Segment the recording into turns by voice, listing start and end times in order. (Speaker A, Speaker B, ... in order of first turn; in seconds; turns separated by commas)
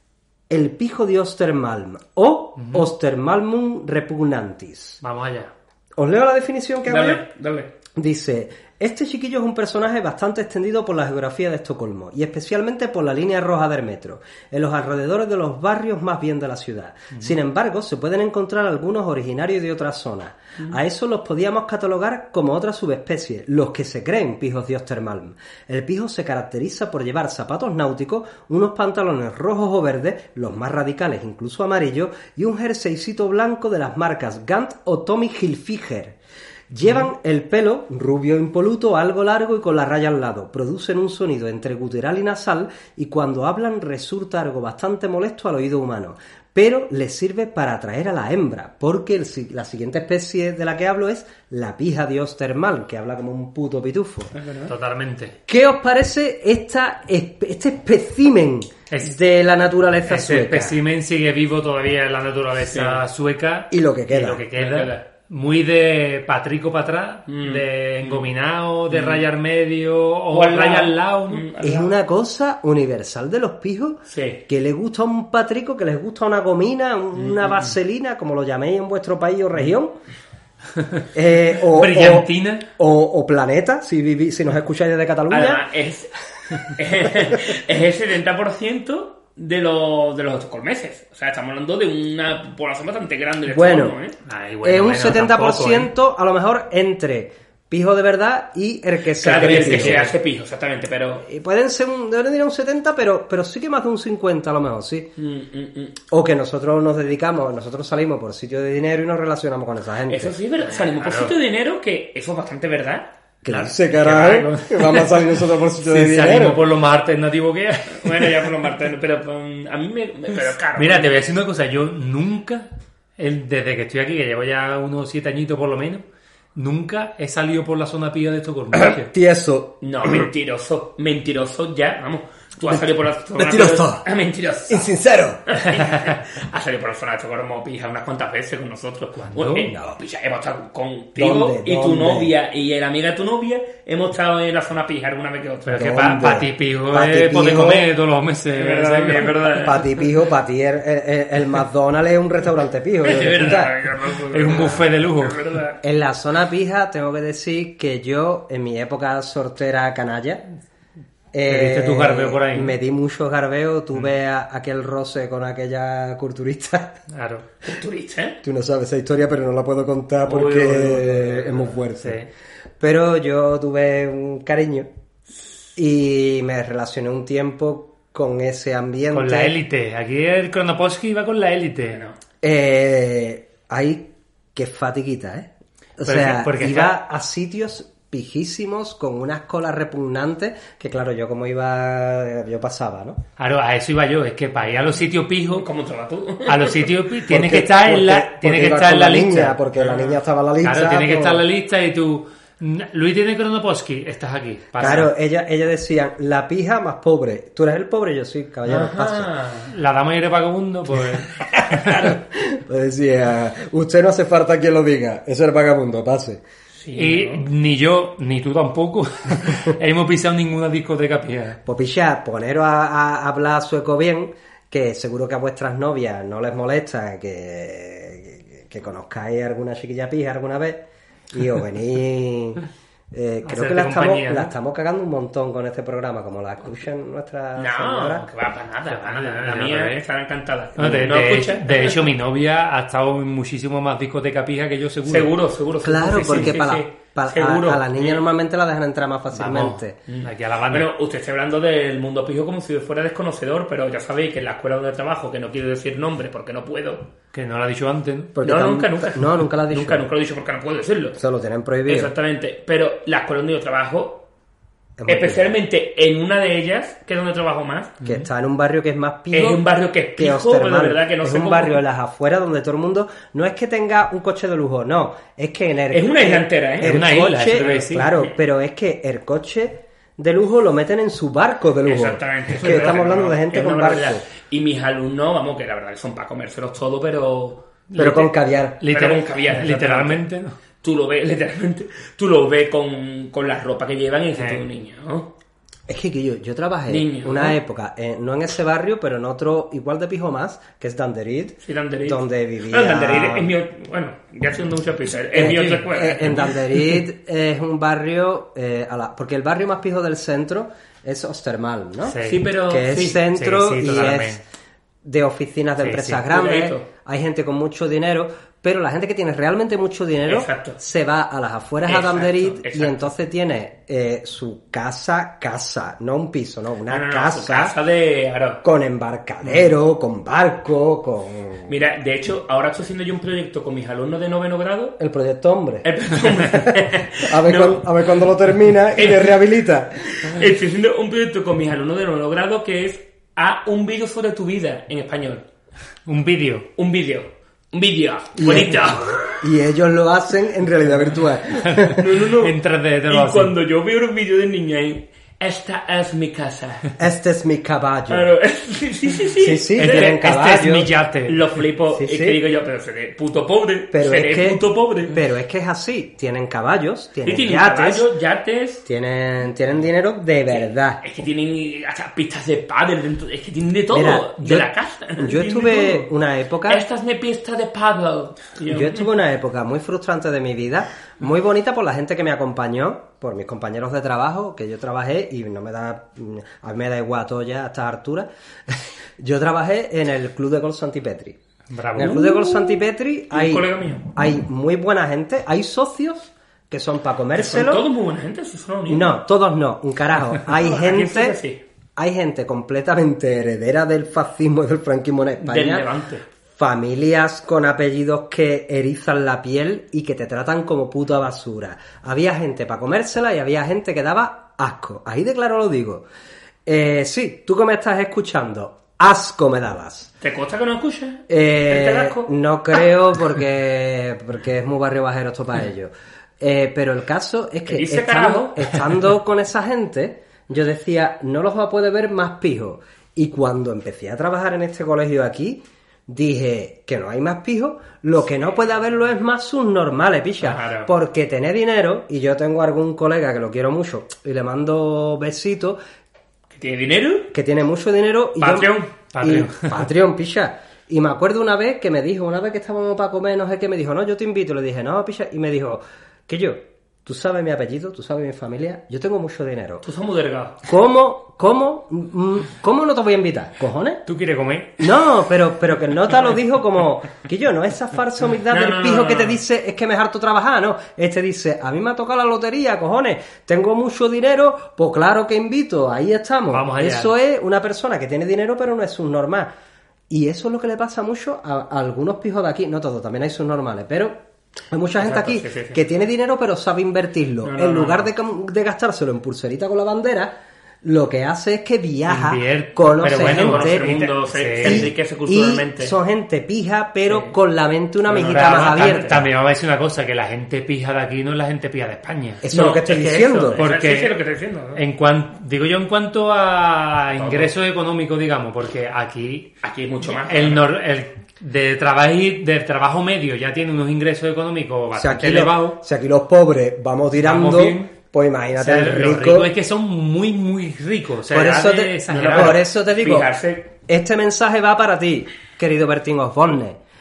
Speaker A: 0.5-5.0, Speaker B: 2.6-2.9, Speaker B: 5.0-5.5, Speaker A: 6.0-7.2, Speaker C: 6.9-7.7, Speaker A: 7.9-36.2, Speaker A: 36.7-54.3, Speaker C: 54.3-54.7, Speaker B: 54.7-55.3, Speaker A: 55.5-60.8, Speaker B: 60.0-71.5, Speaker C: 62.7-63.0, Speaker A: 63.7-64.4, Speaker C: 64.5-65.0, Speaker C: 67.3-68.3, Speaker C: 68.9-69.2, Speaker C: 70.3-71.9, Speaker A: 71.6-79.9, Speaker C: 74.1-74.4, Speaker A: 81.1-85.6, Speaker B: 81.6-82.7, Speaker C: 85.3-94.2, Speaker A: 93.5-93.9, Speaker B: 94.3-95.9, Speaker A: 94.6-100.1, Speaker C: 99.2-101.2, Speaker B: 99.3-100.1, Speaker A: 101.2-105.1, Speaker C: 105.2-106.0, Speaker A: 106.1-110.3, Speaker C: 110.1-113.1, Speaker B: 110.8-111.3, Speaker A: 113.4-116.7, Speaker B: 113.5-118.5, Speaker C: 118.0-121.2, Speaker B: 120.8-126.0, Speaker B: 126.5-129.1, Speaker A: 128.7-130.3, Speaker C: 129.8-134.9, Speaker A: 133.3-134.0, Speaker A: 134.7-135.4, Speaker C: 135.5-145.9, Speaker A: 139.4-140.0, Speaker A: 141.2-142.3, Speaker B: 145.7-149.4, Speaker A: 145.8-147.9, Speaker C: 148.5-149.9, Speaker A: 149.6-153.7, Speaker C: 153.0-155.8, Speaker B: 154.3-155.4, Speaker A: 154.5-154.8, Speaker A: 155.8-160.4, Speaker A: 161.3-166.9, Speaker B: 161.5-162.8, Speaker B: 167.1-167.4, Speaker C: 167.6-168.4, Speaker A: 168.4-172.2, Speaker C: 170.2-171.7, Speaker B: 172.0-172.3, Speaker A: 172.8-174.9, Speaker A: 175.8-179.6, Speaker B: 179.1-182.0, Speaker A: 182.4-193.2, Speaker B: 186.0-186.9, Speaker B: 193.4-195.7, Speaker C: 195.5-196.9, Speaker B: 196.5-199.6, Speaker A: 197.3-201.4, Speaker C: 199.8-200.2, Speaker B: 200.6-205.1, Speaker A: 204.8-209.3, Speaker C: 208.7-209.7, Speaker B: 209.7-212.1, Speaker A: 211.5-216.4, Speaker C: 216.8-217.4, Speaker B: 216.9-221.6, Speaker A: 221.7-238.3, Speaker B: 233.4-234.5, Speaker C: 237.6-242.1, Speaker B: 238.9-240.0, Speaker B: 240.8-245.3, Speaker C: 245.1-248.2, Speaker A: 245.8-250.0, Speaker B: 249.3-250.9, Speaker C: 250.1-257.1, Speaker B: 257.3-258.3, Speaker A: 258.3-260.1, Speaker C: 258.4-261.2, Speaker A: 261.2-262.1, Speaker C: 261.9-264.2, Speaker A: 265.0-265.6, Speaker C: 265.1-268.0, Speaker A: 268.0-269.6, Speaker C: 269.3-271.8, Speaker A: 270.2-284.2, Speaker C: 275.9-278.3, Speaker B: 276.8-278.1, Speaker C: 281.8-287.6, Speaker B: 287.9-290.6, Speaker A: 287.9-288.8, Speaker C: 288.9-290.2, Speaker C: 290.8-295.3, Speaker B: 294.4-294.6, Speaker A: 295.9-303.5, Speaker C: 296.9-297.6, Speaker C: 301.6-306.6, Speaker A: 305.3-314.4, Speaker B: 305.4-305.8, Speaker B: 312.1-312.4, Speaker C: 312.2-313.2, Speaker B: 313.3-314.4, Speaker A: 315.0-327.7, Speaker B: 315.8-316.2, Speaker C: 316.3-316.9, Speaker C: 320.3-320.8, Speaker C: 321.8-323.0, Speaker C: 326.9-328.6, Speaker A: 328.6-331.7, Speaker C: 331.7-335.0, Speaker A: 335.0-340.1, Speaker C: 335.8-337.9, Speaker C: 338.9-339.4, Speaker C: 340.0-345.4, Speaker B: 346.1-346.7, Speaker C: 346.8-349.4, Speaker A: 348.4-352.1, Speaker B: 351.7-353.6, Speaker C: 351.9-352.5, Speaker C: 353.1-356.9, Speaker A: 357.0-358.3, Speaker C: 358.1-360.2, Speaker A: 359.4-360.9, Speaker B: 359.8-361.5, Speaker C: 361.3-365.2, Speaker A: 361.9-362.4, Speaker A: 363.9-368.1, Speaker C: 367.2-368.8, Speaker A: 368.8-371.0, Speaker C: 370.5-376.1, Speaker A: 373.9-376.8, Speaker C: 376.7-379.1, Speaker A: 378.7-391.4, Speaker B: 391.7-392.8, Speaker A: 391.9-397.8, Speaker C: 393.3-394.1, Speaker C: 397.3-399.2, Speaker A: 398.9-401.4, Speaker C: 400.5-401.6, Speaker A: 402.0-405.9, Speaker C: 405.4-406.2, Speaker A: 406.6-416.1, Speaker A: 416.7-420.1, Speaker C: 420.2-422.3, Speaker A: 421.3-445.8, Speaker C: 427.7-428.7, Speaker C: 440.4-440.9, Speaker C: 446.6-447.3, Speaker A: 447.3-459.8, Speaker C: 448.4-448.9, Speaker B: 449.1-449.8, Speaker C: 459.8-460.7, Speaker A: 460.7-464.0, Speaker B: 464.1-464.8, Speaker A: 464.8-479.5, Speaker C: 468.5-469.4, Speaker B: 476.5-477.1, Speaker A: 480.1-484.2, Speaker A: 484.7-494.0, Speaker C: 485.0-485.8, Speaker C: 487.4-488.1, Speaker B: 492.1-494.9, Speaker C: 493.2-495.9, Speaker A: 494.6-499.3, Speaker C: 497.1-497.3, Speaker C: 498.1-499.2, Speaker B: 498.2-502.4, Speaker A: 502.4-503.6, Speaker C: 502.5-504.8, Speaker B: 503.6-504.2, Speaker B: 504.7-509.5, Speaker C: 507.1-507.5, Speaker C: 509.6-510.7, Speaker B: 510.1-515.8, Speaker A: 515.0-519.5, Speaker B: 517.2-517.9, Speaker B: 518.6-522.6, Speaker A: 521.3-523.3, Speaker C: 522.1-523.7, Speaker A: 523.9-526.8